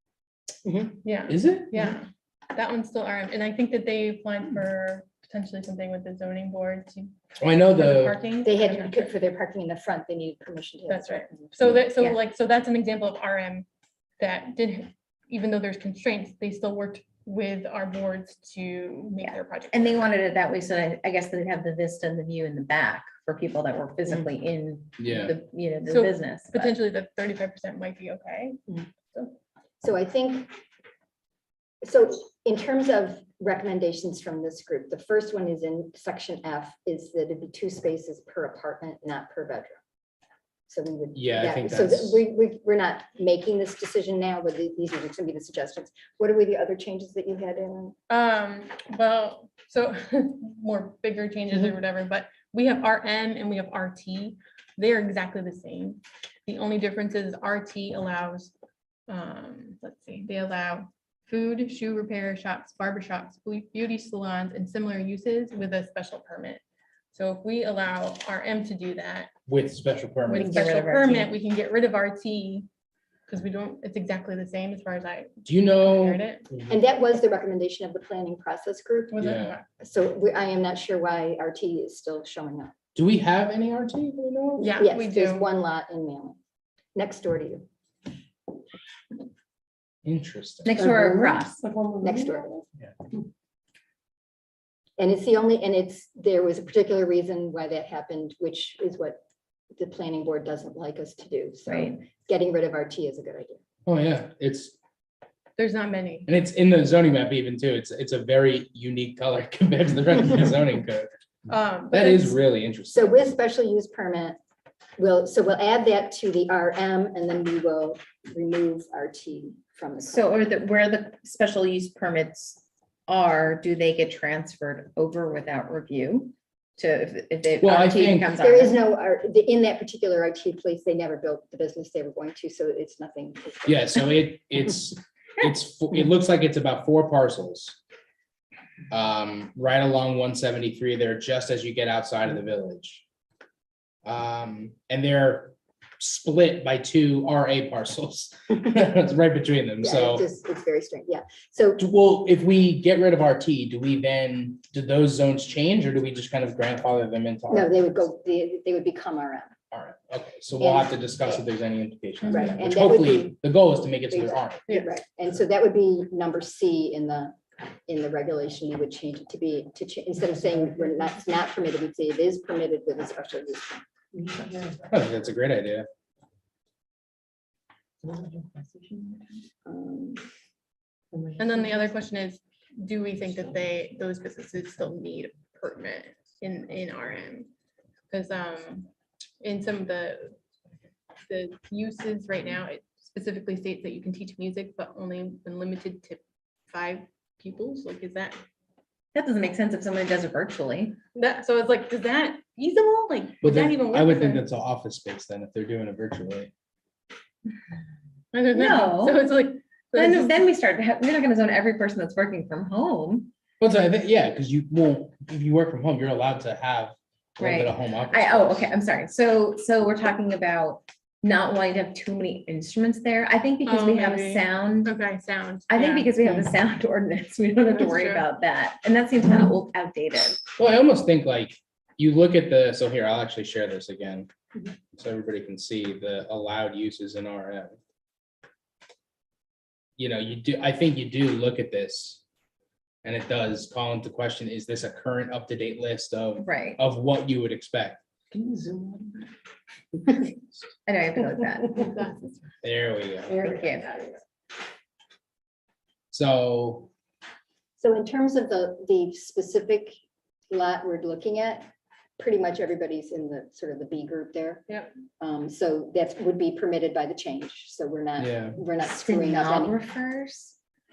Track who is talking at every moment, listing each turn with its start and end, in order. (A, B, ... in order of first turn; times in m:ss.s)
0:00.6-0:01.0 A
0:01.0-0:09.1 B
0:01.3-0:01.8 C
0:07.4-0:08.2 C
0:08.4-0:11.8 A
0:10.9-0:13.7 B
0:14.2-0:20.0 B
0:19.2-0:26.7 D
0:25.0-0:25.4 C
0:25.8-0:29.3 B
0:29.8-0:30.5 A
0:31.8-0:39.8 A
0:40.7-0:48.0 A
0:41.1-0:42.2 C
0:48.1-0:58.5 B
0:59.1-1:06.6 B
1:07.1-1:09.3 B
1:09.5-1:10.6 C
1:10.3-1:12.7 B
1:10.3-1:11.3 D
1:13.3-1:16.5 B
1:15.4-1:16.7 C
1:16.7-1:19.2 A
1:19.1-1:19.6 B
1:19.2-1:19.6 C
1:19.8-1:22.7 A
1:23.0-1:24.8 C
1:24.6-1:25.4 B
1:24.8-1:26.4 A
1:26.9-1:27.6 A
1:30.0-1:30.8 C
1:30.6-1:31.6 D
1:30.8-1:31.4 A
1:32.0-1:32.6 A
1:35.0-1:39.2 A
1:39.7-1:43.6 A
1:41.7-1:41.9 D
1:43.8-1:44.8 C
1:45.6-1:46.3 B
1:46.3-1:51.1 C
1:51.5-1:52.4 B
1:51.9-1:53.2 C
1:52.9-1:54.4 A
1:55.0-2:00.3 A
2:00.0-2:08.8 D
2:07.6-2:08.3 C
2:08.4-2:14.0 A
2:13.6-2:17.8 C
2:18.9-2:23.0 C
2:24.0-2:30.2 C
2:29.8-2:31.8 A
2:31.8-2:37.8 C
2:37.5-2:39.5 A
2:39.7-2:44.6 C
2:40.6-2:41.4 A
2:42.2-2:42.6 B
2:42.3-2:43.4 A
2:44.1-2:53.8 A
2:44.7-2:44.9 B
2:54.2-2:54.7 D
2:54.8-2:55.9 C
2:58.0-2:59.3 D
2:59.6-3:00.2 A
3:01.4-3:07.5 B
3:08.1-3:08.9 B
3:09.4-3:10.4 B
3:11.3-3:18.4 B
3:19.1-3:21.0 D
3:21.1-3:24.4 B
3:23.4-3:26.5 C
3:28.3-3:30.4 B
3:28.5-3:29.2 D
3:29.9-3:33.3 D
3:33.6-3:38.7 C
3:37.4-3:45.0 D
3:43.6-3:46.1 B
3:45.7-3:50.4 D
3:47.7-3:48.2 B
3:50.6-3:54.3 C
3:55.0-3:57.8 C
4:00.0-4:02.2 C
4:03.0-4:08.0 C
4:06.4-4:06.8 D
4:10.8-4:11.9 D
4:11.8-4:12.4 B
4:12.6-4:13.5 C
4:13.3-4:14.2 D
4:16.1-4:16.9 C
4:17.8-4:20.0 A
4:20.5-4:24.7 A
4:25.2-4:29.8 A
4:28.2-4:28.6 C
4:28.8-4:30.6 D